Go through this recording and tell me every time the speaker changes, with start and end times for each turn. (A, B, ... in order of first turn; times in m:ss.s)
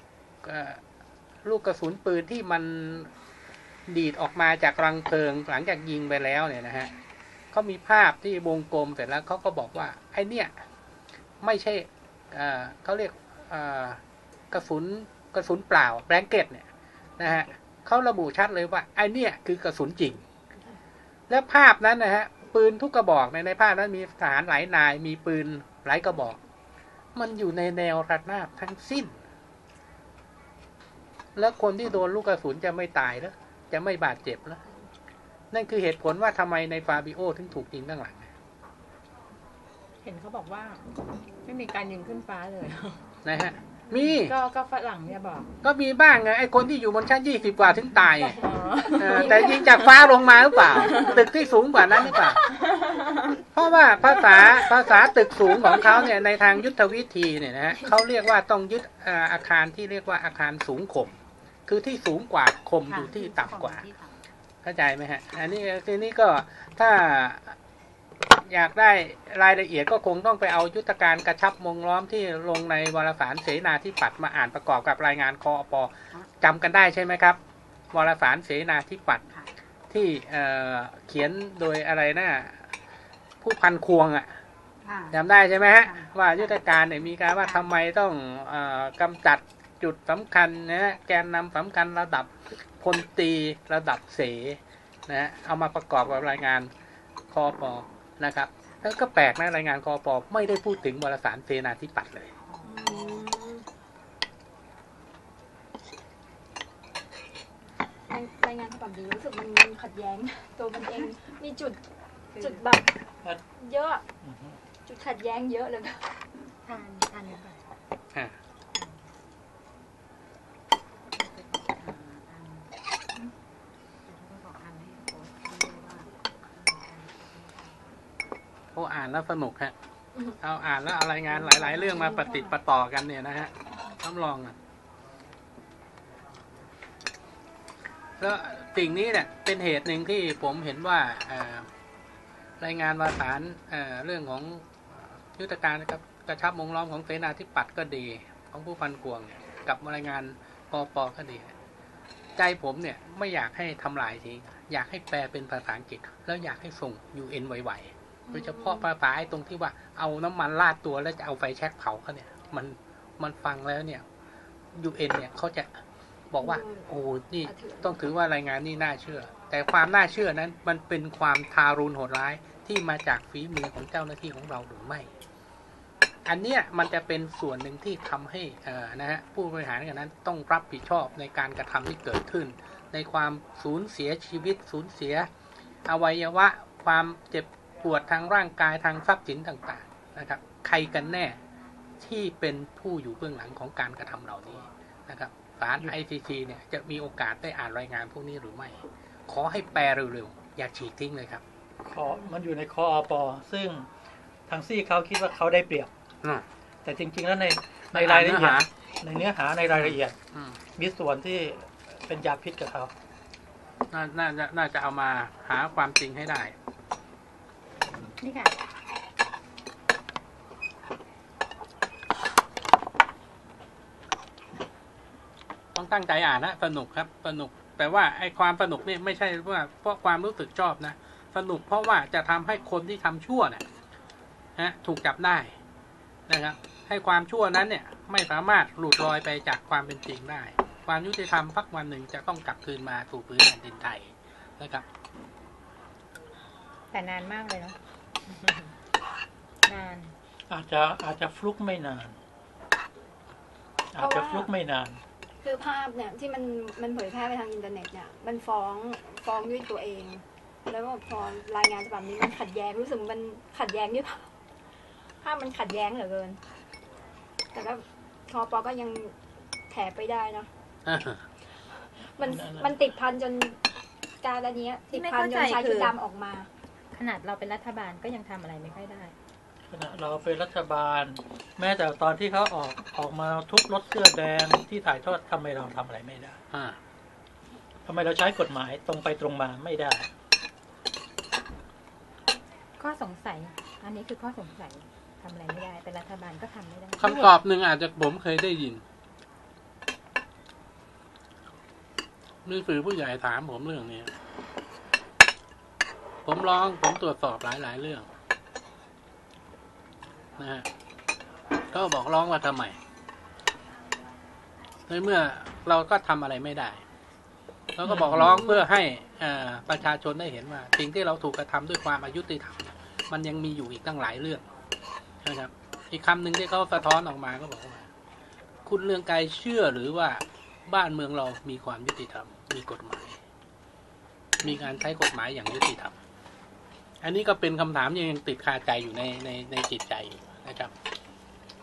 0:00.4-0:00.8 A
0:01.4-0:03.1 A
0:03.9-0:06.9 A
0:07.5-0:10.5 A
0:11.4-0:16.7 A
0:17.2-0:20.2 A
0:17.2-0:17.5 B
0:21.3-0:26.4 A
0:27.1-0:29.2 A
0:31.3-0:34.6 A
0:35.5-0:38.3 A
0:40.0-0:40.8 C
0:41.4-0:43.0 C
0:43.2-0:44.3 A
0:43.9-0:45.5 C
0:45.6-0:48.4 A
0:48.3-0:49.7 D
0:48.4-0:50.0 C
0:49.0-0:52.4 A
0:50.7-0:51.2 C
0:50.8-0:51.2 D
0:52.6-0:53.4 C
0:53.5-1:03.8 A
1:02.9-1:04.2 B
1:04.6-1:07.6 A
1:08.4-1:17.4 A
1:17.9-1:19.2 A
1:19.2-1:19.5 B
1:19.9-1:22.7 A
1:23.4-1:24.3 A
1:24.8-1:26.6 B
1:25.1-1:36.7 A
1:27.4-1:27.7 B
1:37.3-1:42.3 A
1:42.6-1:43.6 D
1:42.7-1:43.2 C
1:48.1-1:51.8 D
1:52.3-1:52.9 D
1:53.6-1:54.0 D
1:54.2-1:54.6 E
1:54.8-1:56.3 D
1:56.6-1:57.6 C
2:01.1-2:02.7 B
2:04.1-2:06.1 B
2:06.6-2:07.6 C
2:07.1-2:07.4 B
2:08.7-2:09.7 A
2:10.4-2:14.6 A
2:11.3-2:12.5 D
2:18.2-2:21.7 A
2:22.6-2:31.5 A
2:32.4-2:44.0 A
2:38.3-2:38.8 D
2:44.7-2:45.7 A
2:46.3-2:55.1 A
2:46.4-2:46.8 D
2:47.4-2:48.0 D
2:56.2-3:05.3 A
3:05.9-3:11.4 A
3:12.0-3:21.4 A
3:21.9-3:23.9 E
3:24.5-3:25.9 E
3:26.8-3:30.1 E
3:27.9-3:28.7 A
3:29.7-3:30.6 A
3:30.8-3:32.9 E
3:33.9-3:36.5 A
3:38.2-3:38.5 C
3:45.7-3:53.6 A
3:54.6-3:55.6 A
3:56.3-4:04.8 A
4:06.9-4:07.8 C
4:08.3-4:08.7 C
4:09.6-4:10.1 C
4:10.5-4:12.2 E
4:13.9-4:15.0 E
4:14.0-4:14.5 D
4:15.4-4:24.3 D
4:25.2-4:26.4 D
4:27.5-4:29.1 D
4:29.7-4:30.5 D
4:30.8-4:31.2 A
4:32.1-4:33.6 D
4:32.2-4:32.7 E
4:34.2-4:36.5 D
4:34.9-4:36.0 C
4:36.9-4:39.1 C
4:39.7-4:46.4 E
4:46.5-4:46.8 A
4:47.8-4:50.1 E
4:52.8-4:57.3 C
4:57.0-4:58.8 A
5:02.4-5:04.1 A
5:06.2-5:08.1 A
5:10.4-5:10.6 A
5:11.7-5:12.8 A
5:14.9-5:16.8 A
5:17.8-5:24.4 A
5:25.2-5:27.8 A
5:28.6-5:33.2 A
5:34.4-5:36.0 A
5:37.0-5:40.7 A